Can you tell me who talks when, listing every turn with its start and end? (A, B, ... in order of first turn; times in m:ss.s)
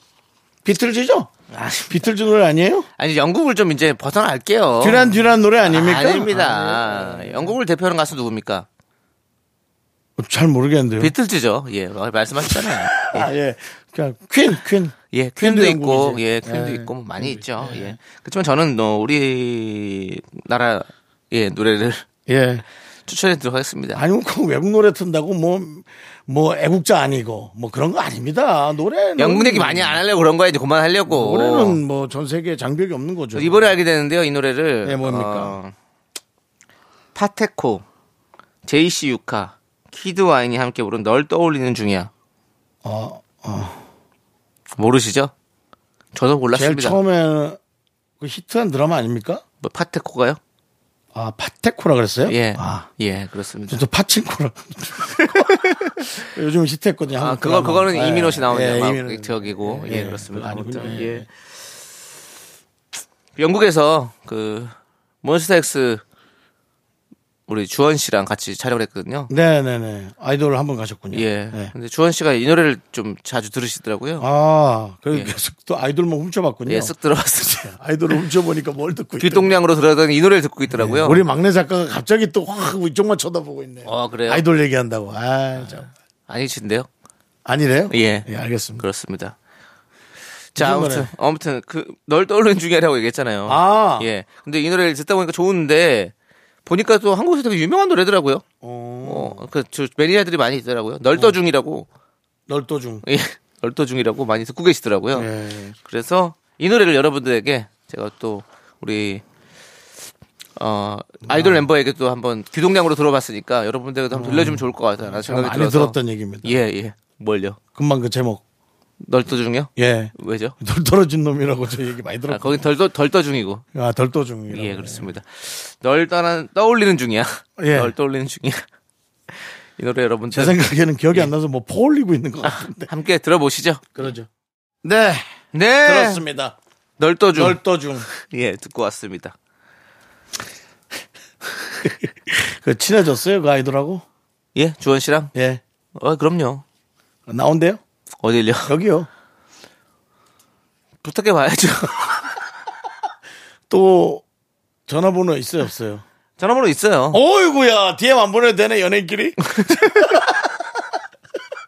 0:00.6-0:01.3 A
0:01.5-0:02.0 B
0:01.9-0:02.9 A
0:03.0-0:05.1 B
0:04.8-0:07.5 A
0:05.6-0:08.7 B
0:10.2-0:11.1 A
0:11.0-0:13.3 B
0:12.4-0:18.0 A
0:15.1-0:22.0 B
0:22.3-0:22.6 A
0:23.1-0:24.0 B
0:23.9-0:30.0 A
0:29.2-0:31.8 B
0:31.1-0:33.7 A
0:33.4-0:35.7 B
0:34.8-0:35.6 A
0:37.1-0:37.8 B
0:38.6-0:42.1 B
0:42.8-0:43.8 A
0:44.8-0:45.3 B
0:46.1-0:47.0 B
0:46.5-0:47.6 A
0:48.2-0:49.4 A
0:49.6-0:50.4 B
0:51.1-0:52.9 A
0:52.2-0:53.8 B
0:53.7-1:01.3 A
0:55.2-0:56.1 B
0:57.2-1:01.2 B
1:03.4-1:06.0 B
1:07.5-1:09.3 B
1:09.3-1:11.7 A
1:11.1-1:14.3 B
1:14.2-1:19.6 A
1:15.1-1:15.4 B
1:16.7-1:17.7 B
1:19.2-1:21.2 B
1:20.7-1:25.9 A
1:23.8-1:24.4 B
1:25.6-1:26.9 B
1:27.4-1:28.8 A
1:27.9-1:28.3 B
1:28.8-1:29.4 B
1:30.6-1:36.1 B
1:30.6-1:31.1 A
1:33.5-1:34.1 A
1:36.6-1:38.4 B
1:38.6-1:39.4 A
1:39.0-1:41.9 B
1:42.5-1:43.0 A
1:43.0-1:45.3 B
1:45.1-1:45.8 A
1:45.8-1:49.2 B
1:50.6-1:57.6 B
1:51.2-1:51.6 A
1:54.1-1:56.6 A
1:57.8-1:58.4 A
1:59.0-2:00.6 B
1:59.8-2:02.6 A
2:02.3-2:03.6 B
2:03.7-2:05.1 A
2:04.5-2:08.6 B
2:07.6-2:07.9 A
2:09.3-2:11.3 B
2:10.3-2:12.9 A
2:12.4-2:13.9 B
2:13.9-2:14.3 A
2:14.8-2:15.2 A
2:15.5-2:16.2 B
2:15.8-2:16.6 A
2:17.0-2:19.4 B
2:17.3-2:18.1 A
2:21.8-2:24.0 A
2:24.6-2:25.3 B
2:25.3-2:25.6 A
2:26.0-2:26.6 B
2:27.3-2:27.8 A
2:28.2-2:28.7 B
2:28.6-2:29.1 A
2:31.0-2:32.2 B
2:33.7-2:34.2 A
2:34.9-2:36.0 A
2:36.4-2:37.2 B
2:37.1-2:40.5 A